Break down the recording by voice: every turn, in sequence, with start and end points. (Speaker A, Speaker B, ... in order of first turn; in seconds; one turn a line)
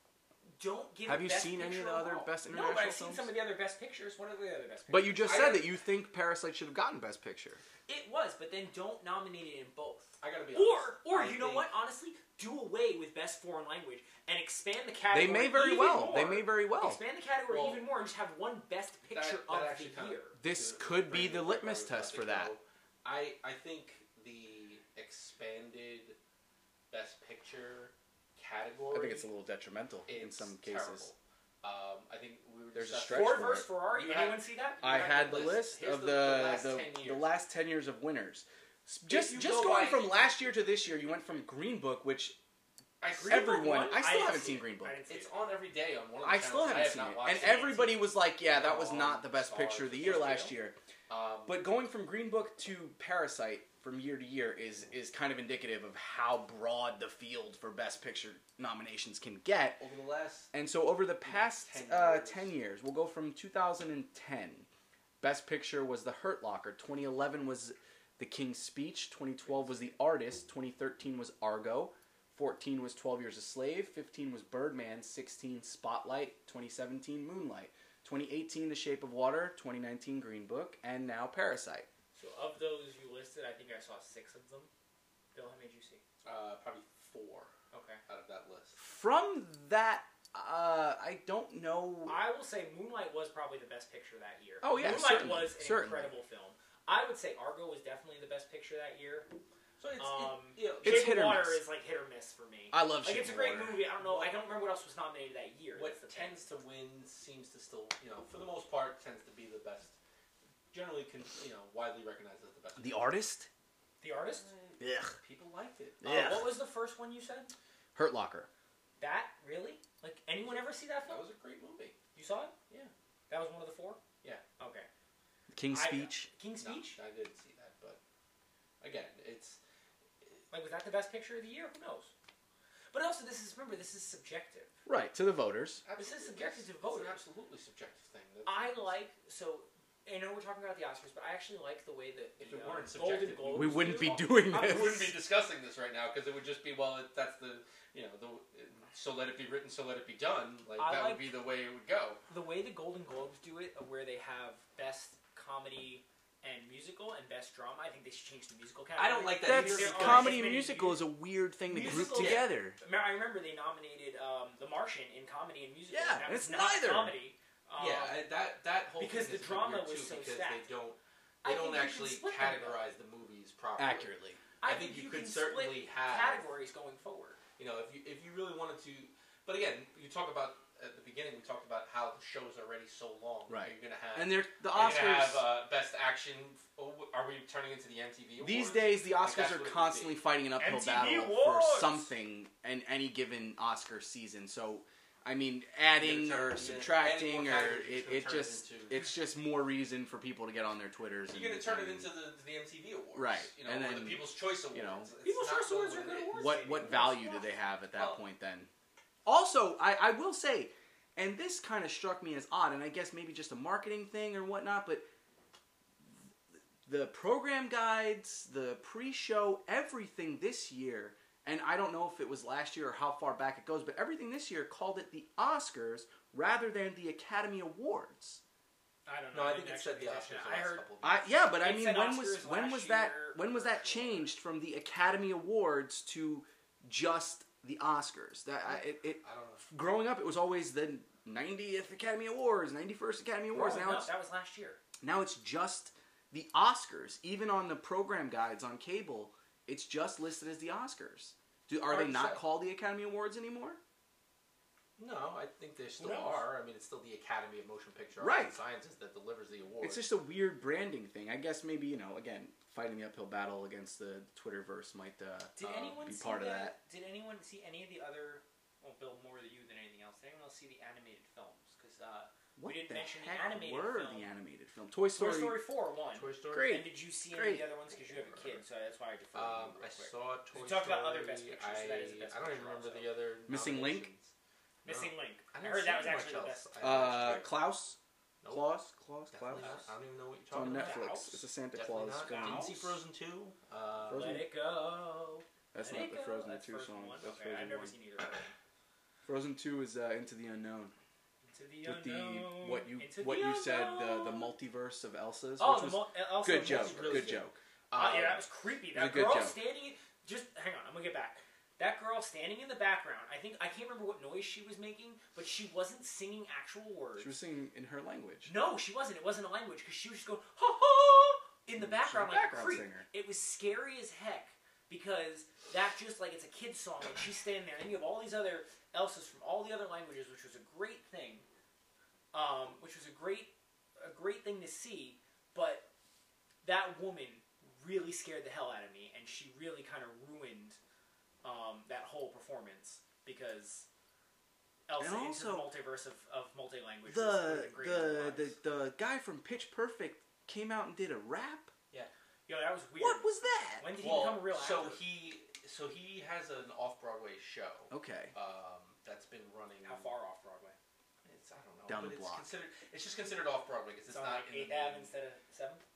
Speaker A: 0.6-5.5
Speaker B: 1.1-3.3
Speaker B: 4.9-7.6
Speaker C: 5.2-5.7
Speaker A: 7.9-20.4
Speaker C: 10.2-11.7
Speaker B: 15.1-17.0
Speaker C: 17.5-17.8
Speaker C: 19.1-26.2
Speaker B: 20.4-22.5
Speaker C: 26.9-29.3
Speaker B: 28.9-31.1
Speaker C: 30.1-37.3
Speaker B: 32.7-33.7
Speaker A: 33.1-35.4
Speaker B: 34.8-42.4
Speaker A: 39.1-40.0
Speaker C: 39.1-40.2
Speaker C: 43.0-43.4
Speaker A: 43.1-45.3
Speaker B: 43.2-45.0
Speaker C: 45.1-50.5
Speaker B: 46.2-50.8
Speaker A: 47.3-47.9
Speaker A: 50.0-50.5
Speaker C: 51.1-51.6
Speaker B: 51.5-59.8
Speaker C: 59.8-60.5
Speaker B: 60.5-64.7
Speaker C: 61.2-62.5
Speaker B: 65.2-81.9
Speaker C: 69.5-69.8
Speaker A: 82.1-84.7
Speaker A: 85.3-86.0
Speaker C: 86.2-87.5
Speaker A: 87.7-88.0
Speaker C: 88.1-88.8
Speaker B: 88.8-92.2
Speaker A: 92.0-99.3
Speaker B: 94.6-96.1
Speaker C: 99.8-101.2
Speaker A: 100.0-106.5
Speaker B: 100.8-101.6
Speaker B: 102.7-103.8
Speaker C: 104.0-104.4
Speaker C: 105.7-110.0
Speaker C: 110.7-113.1
Speaker B: 112.8-113.5
Speaker A: 114.0-114.5
Speaker C: 114.5-116.0
Speaker B: 114.8-115.2
Speaker B: 116.0-116.5
Speaker A: 116.0-117.5
Speaker B: 117.9-118.5
Speaker A: 119.0-121.2
Speaker C: 121.0-122.0
Speaker A: 122.1-122.5
Speaker A: 123.3-124.0
Speaker A: 124.6-124.9
Speaker B: 125.5-126.3
Speaker A: 125.7-127.0
Speaker C: 126.6-128.0
Speaker C: 128.8-129.6
Speaker A: 130.5-132.1
Speaker A: 132.9-134.7
Speaker B: 134.8-135.8
Speaker C: 135.8-138.9
Speaker A: 135.9-137.2
Speaker A: 138.4-145.1
Speaker C: 142.4-152.2
Speaker B: 143.5-145.1
Speaker A: 150.8-151.3
Speaker A: 152.3-161.0
Speaker C: 159.0-160.4
Speaker B: 159.4-162.8
Speaker A: 161.7-168.2
Speaker C: 161.9-162.5
Speaker B: 165.9-167.2
Speaker C: 167.8-174.1
Speaker A: 169.0-170.7
Speaker A: 171.4-172.8
Speaker B: 173.8-174.4
Speaker A: 174.6-177.4
Speaker C: 174.6-176.5
Speaker C: 177.6-190.2
Speaker B: 183.5-185.4
Speaker B: 188.4-202.1
Speaker A: 190.6-192.1
Speaker C: 196.0-199.0
Speaker C: 201.3-206.6
Speaker B: 203.1-205.1
Speaker A: 205.2-208.2
Speaker B: 206.3-208.7
Speaker B: 209.2-215.1
Speaker B: 216.8-228.4
Speaker A: 229.1-230.8
Speaker C: 229.3-231.3
Speaker B: 231.0-244.1
Speaker A: 231.5-234.3
Speaker C: 238.7-239.7
Speaker A: 243.5-244.8
Speaker B: 245.0-253.8
Speaker C: 251.9-252.3
Speaker C: 255.0-260.1
Speaker A: 256.0-256.4
Speaker B: 258.2-258.6
Speaker B: 259.8-266.8
Speaker A: 265.6-274.3
Speaker C: 265.6-266.0
Speaker B: 272.6-275.6
Speaker A: 275.1-283.1
Speaker C: 276.1-276.8
Speaker B: 276.5-277.7
Speaker C: 277.9-278.6
Speaker C: 279.3-284.3
Speaker B: 283.5-284.1
Speaker A: 284.8-286.7
Speaker C: 284.8-287.6
Speaker B: 286.8-288.0
Speaker C: 288.4-288.7
Speaker B: 288.5-289.7
Speaker C: 289.3-291.1
Speaker A: 289.6-289.9
Speaker B: 290.5-292.8
Speaker A: 290.5-291.4
Speaker C: 291.7-294.3
Speaker A: 292.2-292.9
Speaker B: 294.1-294.5
Speaker A: 294.1-298.5
Speaker B: 295.7-297.9
Speaker B: 299.2-300.9
Speaker A: 301.5-304.5
Speaker B: 301.8-307.6
Speaker A: 305.6-307.4
Speaker C: 306.6-308.4
Speaker A: 307.9-317.3
Speaker B: 308.9-309.6
Speaker B: 317.2-318.5
Speaker A: 318.4-331.4
Speaker B: 321.8-323.1
Speaker A: 332.3-335.9
Speaker A: 336.6-340.8
Speaker A: 341.4-343.9
Speaker A: 344.9-348.6
Speaker B: 345.0-345.7
Speaker B: 347.1-351.7
Speaker A: 352.5-353.3
Speaker B: 353.0-353.9
Speaker A: 353.8-355.0
Speaker C: 354.0-360.1
Speaker B: 357.9-358.3
Speaker A: 359.8-360.8
Speaker C: 361.2-365.1
Speaker B: 361.9-362.5
Speaker A: 364.1-365.8